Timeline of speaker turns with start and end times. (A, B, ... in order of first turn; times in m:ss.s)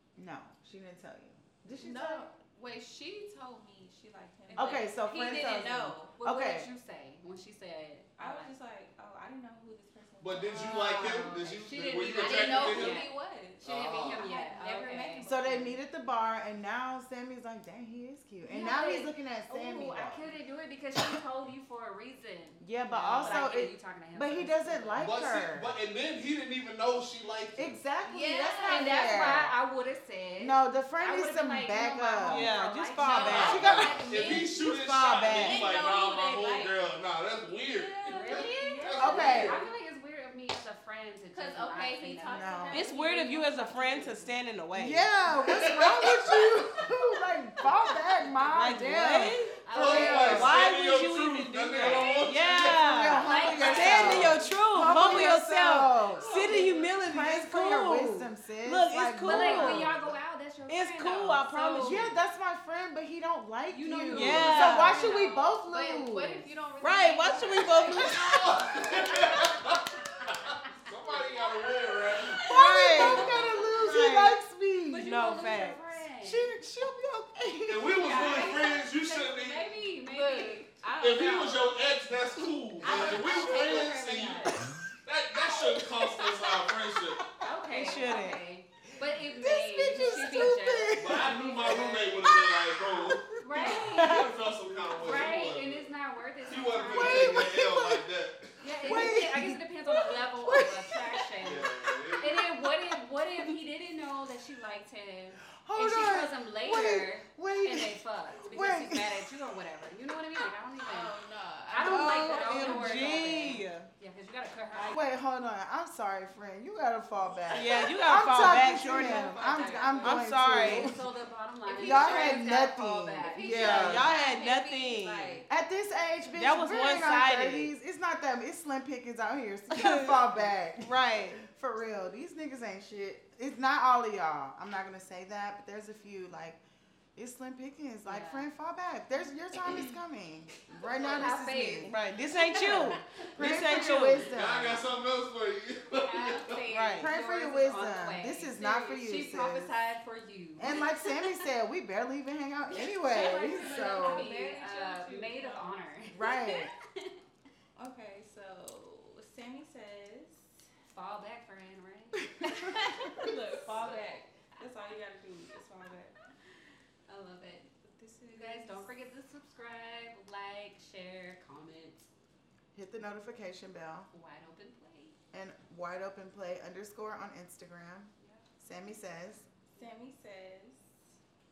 0:00.2-0:02.3 A
0:01.7-0:06.2 B
0:04.5-0:05.4 C
0:04.5-0:06.7 A
0:06.2-0:08.5 C
0:08.2-0:11.1 B
0:10.2-0:13.1 D
0:10.6-0:15.3 C
0:12.0-0:15.8 B
0:13.6-0:14.2 D
0:15.2-0:20.3 A
0:18.4-0:25.1 C
0:22.6-0:25.7 A
0:25.0-0:27.8 D
0:27.6-0:29.5 A
0:28.0-0:29.1 B
0:28.6-0:33.8 C
0:30.4-0:32.5 A
0:32.2-0:33.8 E
0:33.2-0:39.6 D
0:33.2-0:34.4 A
0:33.4-0:36.8 B
0:34.6-0:35.6 E
0:37.6-0:39.7 B
0:38.0-0:42.9 C
0:39.0-0:39.6 A
0:41.3-0:44.3 B
0:42.3-0:42.8 A
0:42.7-0:45.1 E
0:44.7-0:50.6 A
0:45.3-0:46.9 D
0:48.2-0:48.6 C
0:48.5-1:00.0 E
0:49.6-0:50.7 C
0:49.7-0:54.4 D
0:51.8-0:55.4 C
0:52.8-1:00.0 A
0:56.1-0:57.0 C
0:59.2-1:02.2 C
1:00.7-1:02.1 E
1:01.8-1:06.5 A
1:03.7-1:09.8 C
1:04.1-1:05.1 E
1:06.5-1:09.1 B
1:06.8-1:08.6 E
1:07.8-1:12.4 D
1:11.1-1:11.4 C
1:12.4-1:14.4 E
1:12.4-1:15.1 A
1:13.0-1:13.7 C
1:13.0-1:13.5 D
1:14.9-1:16.5 C
1:15.0-1:17.8 E
1:16.2-1:18.0 A
1:17.7-1:19.8 D
1:18.0-1:20.7 C
1:18.0-1:18.7 B
1:20.0-1:21.8 B
1:21.0-1:27.2 D
1:22.8-1:24.4 B
1:22.8-1:24.7 C
1:27.4-1:32.3 C
1:27.7-1:28.4 E
1:29.1-1:34.1 A
1:31.0-1:35.9 D
1:33.4-1:34.2 C
1:33.5-1:34.0 B
1:34.0-1:34.3 E
1:34.9-1:37.5 C
1:36.4-1:38.6 D
1:36.8-1:38.0 A
1:38.6-1:51.1 C
1:38.8-1:41.2 A
1:41.4-1:42.4 D
1:45.6-1:49.3 A
1:50.8-1:53.6 B
1:51.7-1:55.0 C
1:51.8-1:52.3 A
1:51.8-1:53.9 E
1:54.8-2:01.0 A
1:57.5-2:01.0 E
1:58.6-2:00.2 B
1:58.8-2:04.1 C
2:01.6-2:02.5 B
2:01.8-2:04.1 A
2:03.2-2:05.5 B
2:03.4-2:05.4 E
2:05.5-2:16.6 A
2:06.3-2:07.7 E
2:09.7-2:10.2 E
2:10.8-2:11.4 E
2:17.2-2:22.0 A
2:18.0-2:18.5 C
2:20.8-2:24.0 C
2:21.8-2:24.3 E
2:22.6-2:24.8 A
2:24.2-2:26.6 D
2:26.0-2:31.4 C
2:26.7-2:27.1 E
2:27.0-2:29.7 A
2:30.6-2:34.3 A
2:32.7-2:37.2 C
2:33.0-2:36.0 B
2:36.1-2:36.7 A
2:37.8-2:40.5 B
2:40.9-2:44.2 C
2:42.5-2:46.2 B
2:47.1-2:47.7 C
2:47.7-2:48.9 B
2:48.3-2:52.1 C
2:52.7-2:54.1 A
2:54.1-2:55.2 C
2:55.3-2:59.4 A
2:59.7-3:00.9 B